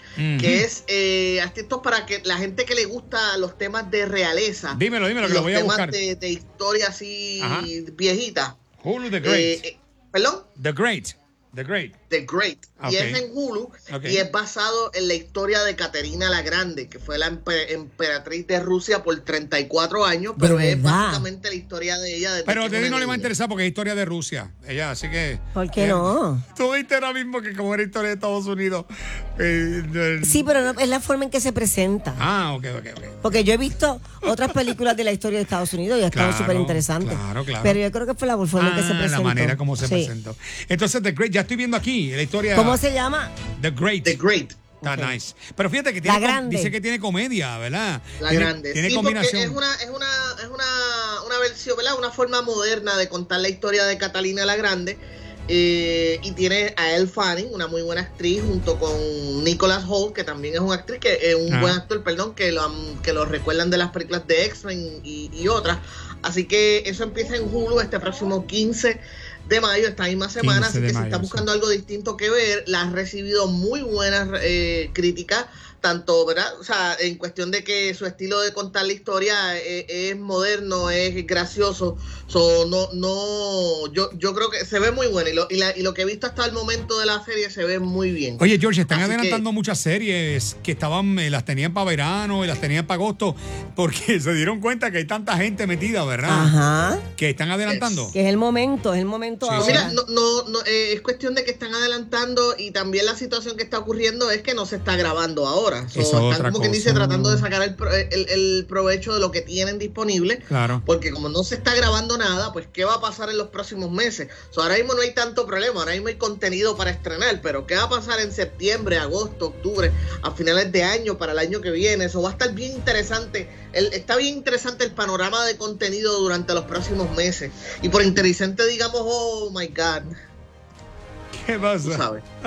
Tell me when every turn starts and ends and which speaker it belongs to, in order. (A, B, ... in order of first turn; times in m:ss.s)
0:00.2-0:00.6 A
0:00.4-0:08.6 B
0:04.7-0:06.0 A
0:07.4-0:07.7 A
0:08.8-0:09.6 A
0:09.2-0:10.5 B
0:10.6-0:11.9 A
0:12.1-0:23.3 B
0:12.8-0:13.2 A
0:13.9-0:14.2 A
0:20.4-0:21.3 C
0:22.5-0:30.5 A
0:25.6-0:26.4 C
0:30.2-0:32.2 C
0:32.2-0:33.3 A
0:33.2-0:40.1 C
0:34.3-0:34.8 A
0:36.1-0:37.8 A
0:38.6-0:42.8 A
0:42.5-0:43.3 C
0:43.6-0:44.2 A
0:44.0-0:44.6 B
0:44.8-0:45.1 C
0:44.8-0:49.6 A
0:46.0-0:46.8 C
0:48.2-1:29.4 B
1:01.5-1:01.8 A
1:10.4-1:11.4 A
1:28.4-1:36.5 A
1:36.3-1:37.0 C
1:37.2-1:38.2 A
1:37.7-1:38.1 B
1:38.1-1:40.0 C
1:39.4-1:39.9 A
1:39.6-2:10.1 B
1:45.9-1:47.3 A
1:50.5-1:50.8 A
2:11.4-2:12.0 A
2:11.8-2:12.2 B